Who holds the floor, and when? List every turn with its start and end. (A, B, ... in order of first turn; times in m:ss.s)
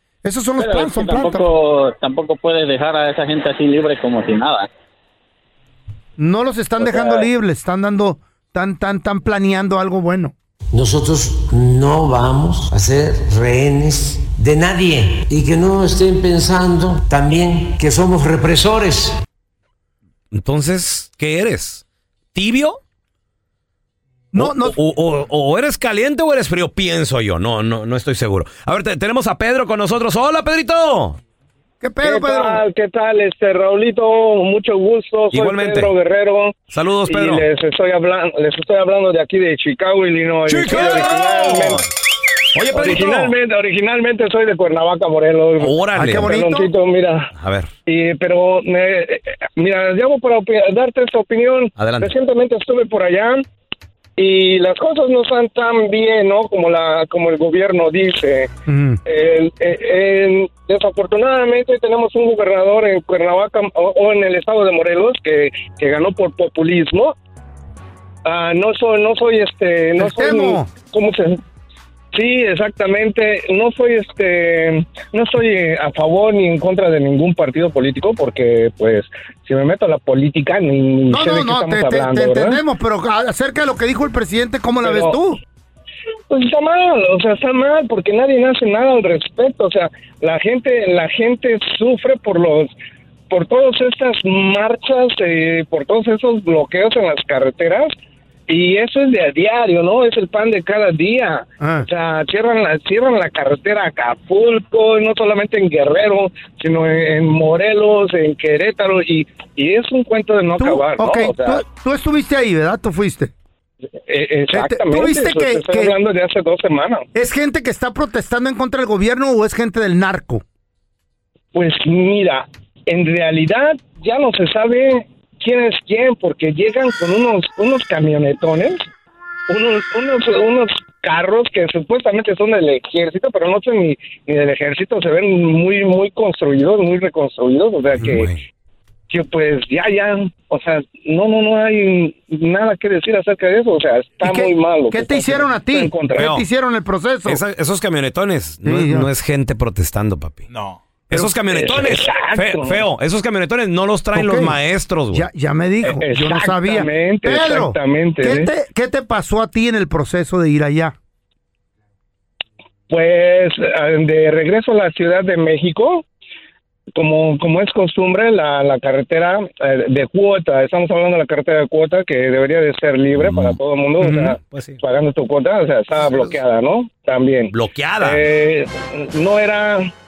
0:00.2-0:01.4 A
0:00.6-0:04.7 B
0:06.2-0:10.3 A
0:06.8-0:07.3 B
0:10.7-0:19.1 C
0:20.3-0:22.8 D
0:24.3-0:24.8 A
0:24.4-0:31.2 D
0:31.8-0:32.6 A
0:32.0-0:36.5 E
0:35.3-0:35.9 D
0:36.7-0:37.5 D
0:37.0-0:41.9 E
0:40.4-0:41.8 D
0:42.5-0:43.3 D
0:42.7-0:47.3 E
0:45.6-0:46.4 D
0:46.0-0:46.7 A
0:47.3-0:47.7 D
0:47.9-0:53.4 E
0:51.8-0:52.1 D
0:54.2-0:58.5 E
0:58.7-0:59.0 A
0:59.0-1:07.1 E
1:08.2-1:11.4 E
1:10.0-1:10.7 A
1:12.1-1:22.6 E
1:21.1-1:25.4 A
1:24.8-1:25.2 E
1:26.3-1:32.7 E
1:33.3-1:37.9 E
1:38.5-1:51.6 E
1:41.6-1:41.8 A
1:50.6-1:53.3 A
1:54.1-1:57.0 E
1:54.5-1:56.0 A
1:57.1-2:00.4 A
2:01.5-2:08.8 E
2:09.5-2:18.3 E
2:17.9-2:18.4 D
2:19.1-2:26.3 E
2:24.2-2:27.4 A
2:26.1-2:26.4 D
2:27.2-2:30.5 D
2:28.6-2:29.1 A
2:31.1-2:35.3 D
2:31.1-2:32.8 E
2:34.1-2:34.6 A
2:35.1-2:40.9 A
2:35.8-2:38.5 E
2:42.9-2:46.0 E
2:46.9-2:59.9 E
2:53.2-2:54.8 D
2:57.5-2:58.2 D